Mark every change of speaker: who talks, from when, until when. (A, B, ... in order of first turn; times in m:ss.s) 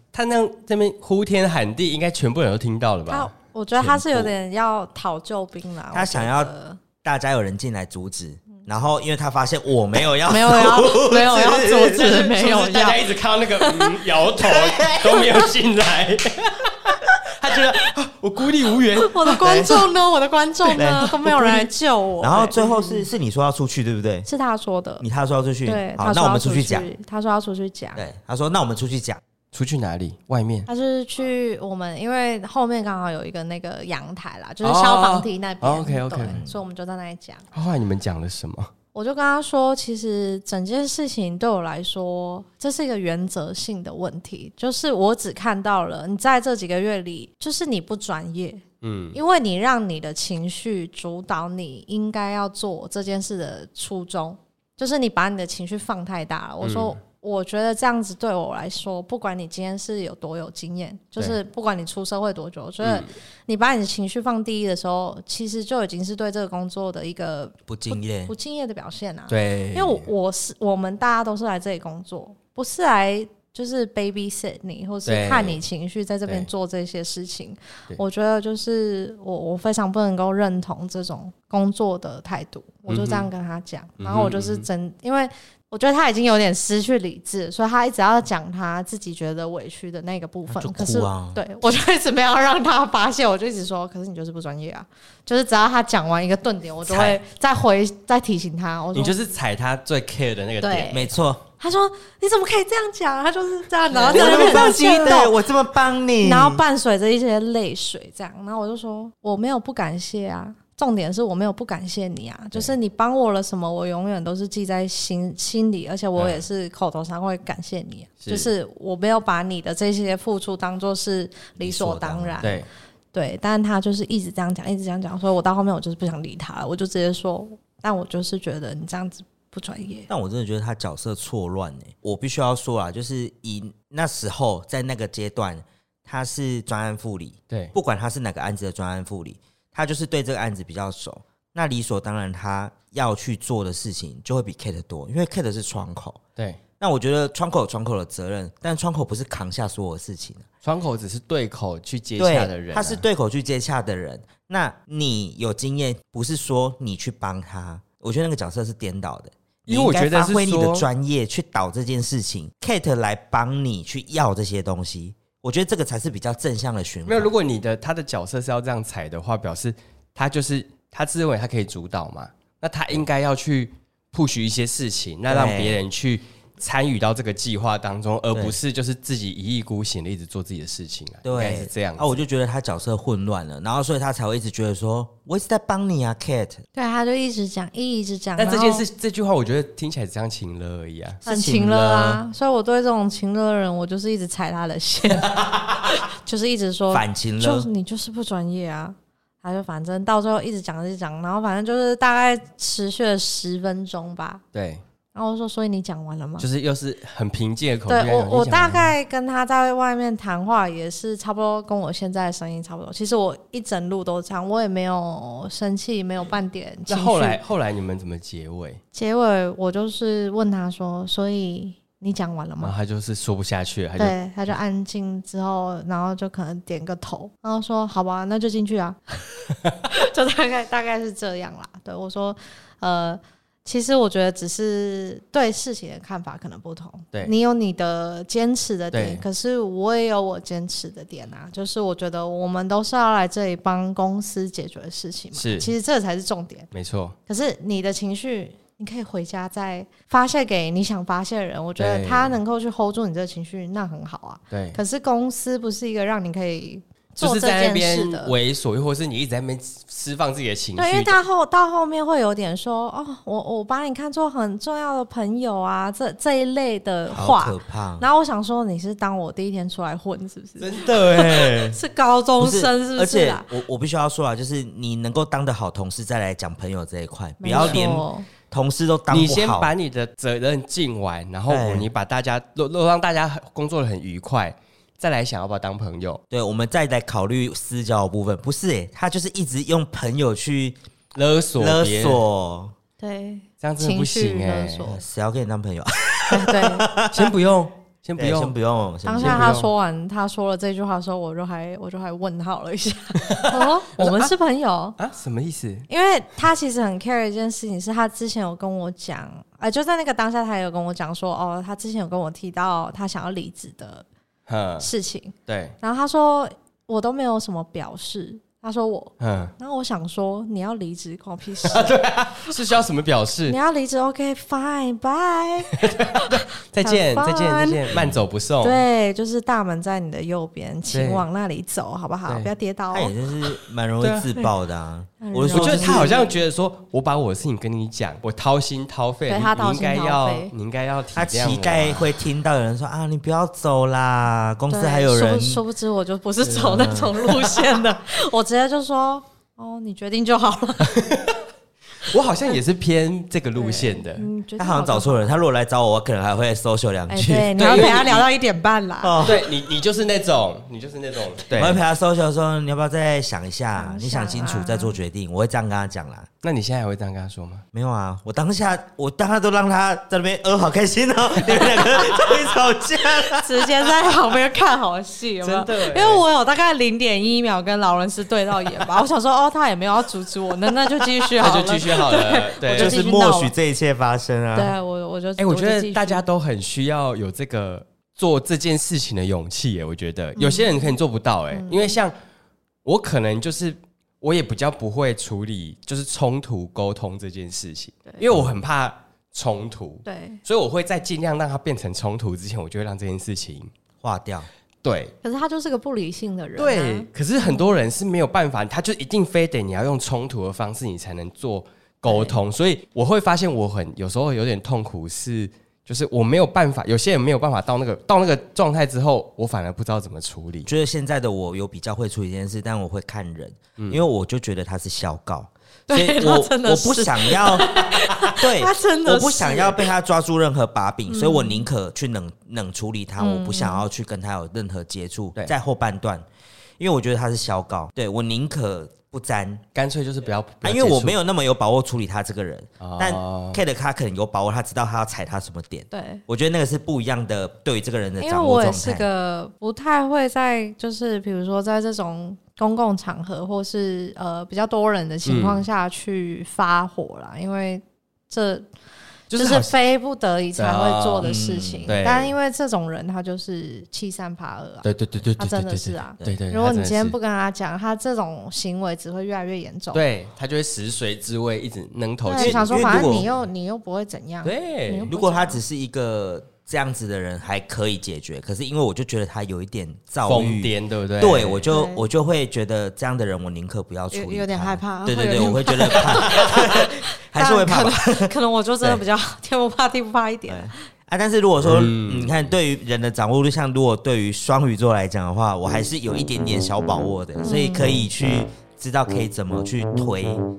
0:00.1-0:04.3 A
0:03.1-0:06.8 B
0:05.9-0:06.5 C
0:07.0-0:12.1 C
0:10.2-0:13.1 B
0:11.9-0:19.4 A
0:13.6-0:14.0 B
0:14.4-0:15.2 C
0:19.0-0:23.1 B
0:19.4-0:19.9 C
0:20.7-0:21.7 C
0:22.2-0:24.3 C
0:24.3-0:25.0 B
0:25.0-0:26.9 C
0:25.6-0:28.0 B
0:28.0-0:29.2 C
0:29.5-0:30.7 A
0:30.7-0:37.4 B
0:34.6-0:36.4 A
0:36.3-0:36.6 C
0:37.5-0:38.7 A
0:38.9-0:48.6 B
0:48.8-0:49.2 A
0:49.1-1:39.2 B
0:56.6-0:57.0 A
1:02.8-1:03.1 A
1:07.7-1:08.3 C
1:09.3-1:10.1 A
1:15.0-1:15.6 A
1:22.9-1:23.3 A
1:24.0-1:24.7 A
1:30.5-1:31.4 C
1:36.8-1:37.2 C
1:38.9-1:41.0 A
1:40.6-1:45.4 B
1:40.9-1:41.4 C
1:43.9-1:44.7 A
1:44.1-1:46.6 C
1:46.2-2:02.6 B
1:56.2-1:56.4 A
1:58.2-1:58.5 A
2:01.6-2:02.5 C
2:02.4-2:02.7 A
2:03.1-2:10.1 B
2:10.1-2:26.2 C
2:26.8-2:30.4 C
2:30.6-2:33.0 A
2:32.2-2:47.3 C
2:39.6-2:40.9 A
2:47.0-3:02.2 A
2:55.3-2:55.8 C
2:58.3-2:58.6 C
3:01.2-3:06.6 C
3:06.7-3:08.8 B
3:08.4-3:11.2 A
3:11.2-3:24.4 B
3:11.2-3:12.2 C
3:16.9-3:17.7 C
3:24.5-3:24.8 A
3:25.1-3:26.5 B
3:26.4-3:28.9 A
3:27.9-3:37.4 B
3:36.9-3:38.8 A
3:38.9-3:42.7 B
3:42.6-3:44.5 A
3:44.0-4:06.7 B
3:58.9-3:59.2 A
4:05.3-4:05.7 A
4:06.7-4:07.2 A
4:07.3-4:18.3 B
4:11.8-4:12.4 A
4:14.5-4:14.8 A
4:17.2-4:21.2 A
4:20.8-4:33.5 B
4:27.1-4:28.0 C
4:30.6-4:31.5 A
4:31.0-4:31.8 C
4:32.4-4:39.7 C
4:37.4-4:38.3 B
4:37.5-4:37.8 A
4:39.1-4:46.2 A
4:41.5-4:41.9 C
4:46.3-4:50.8 C
4:51.1-4:52.2 A
4:51.6-4:52.7 C
4:53.0-4:55.0 B
4:53.6-4:54.9 A
4:54.8-4:57.3 C
4:56.3-4:56.9 B
4:57.1-4:58.5 A
4:58.2-4:59.6 C
4:59.0-5:05.0 B
4:59.2-4:59.7 A
5:03.2-5:04.3 A
5:05.0-5:05.9 A
5:05.9-5:14.0 B
5:14.5-5:14.9 A
5:14.8-5:22.6 B
5:15.5-5:15.7 A
5:19.2-5:19.5 A
5:21.6-5:23.6 A
5:23.5-5:27.9 B
5:25.7-5:28.8 A
5:28.6-5:33.1 B
5:30.9-5:31.2 A
5:32.9-5:36.1 C
5:34.0-5:34.3 A
5:35.2-5:36.3 B
5:35.5-5:42.1 A
5:39.3-5:40.5 B
5:41.2-5:45.6 C
5:44.7-5:51.0 B
5:46.4-5:46.8 A
5:46.6-5:47.5 C
5:50.8-5:51.4 A
5:52.0-5:54.3 A
5:53.6-5:55.3 B
5:54.6-5:58.2 C
5:57.1-5:59.2 B
5:57.6-5:58.1 A
5:59.0-5:59.4 C
5:59.2-6:01.8 A
6:01.5-6:06.3 C
6:03.8-6:05.0 B
6:06.4-6:07.6 A
6:07.7-6:13.9 C
6:11.8-6:12.2 A
6:13.4-6:23.5 B
6:15.4-6:16.2 A
6:21.4-6:23.0 A
6:22.7-6:24.7 C
6:24.5-6:26.2 B
6:25.4-6:32.1 A
6:30.4-6:30.9 B
6:31.5-6:31.9 B
6:32.8-6:43.7 A
6:40.0-6:40.4 B
6:44.0-6:44.5 C
6:44.8-6:45.1 A
6:45.2-6:47.1 B
6:46.6-7:00.7 A
6:52.0-6:52.4 B
7:00.6-7:07.7 C
7:05.9-7:09.9 B
7:08.3-7:16.2 C
7:11.1-7:11.7 B
7:13.2-7:13.8 B
7:16.8-7:19.6 C
7:19.7-7:21.2 A
7:20.6-7:29.0 C
7:22.8-7:23.6 A
7:25.9-7:26.2 B
7:28.2-7:38.7 B
7:35.2-7:35.6 A
7:39.3-7:39.7 A
7:39.3-7:44.8 B
7:40.6-7:41.3 A
7:41.2-7:42.0 C
7:41.9-7:42.3 A
7:44.8-7:47.1 A
7:45.4-7:50.0 B
7:49.9-7:53.3 A
7:52.2-7:55.6 B
7:52.4-7:53.3 C
7:54.4-7:55.1 A
7:55.1-8:08.3 C
8:00.2-8:01.7 A
8:01.7-8:02.1 B
8:04.1-8:10.8 B
8:10.5-8:20.4 C
8:11.6-8:12.5 A
8:17.4-8:18.0 B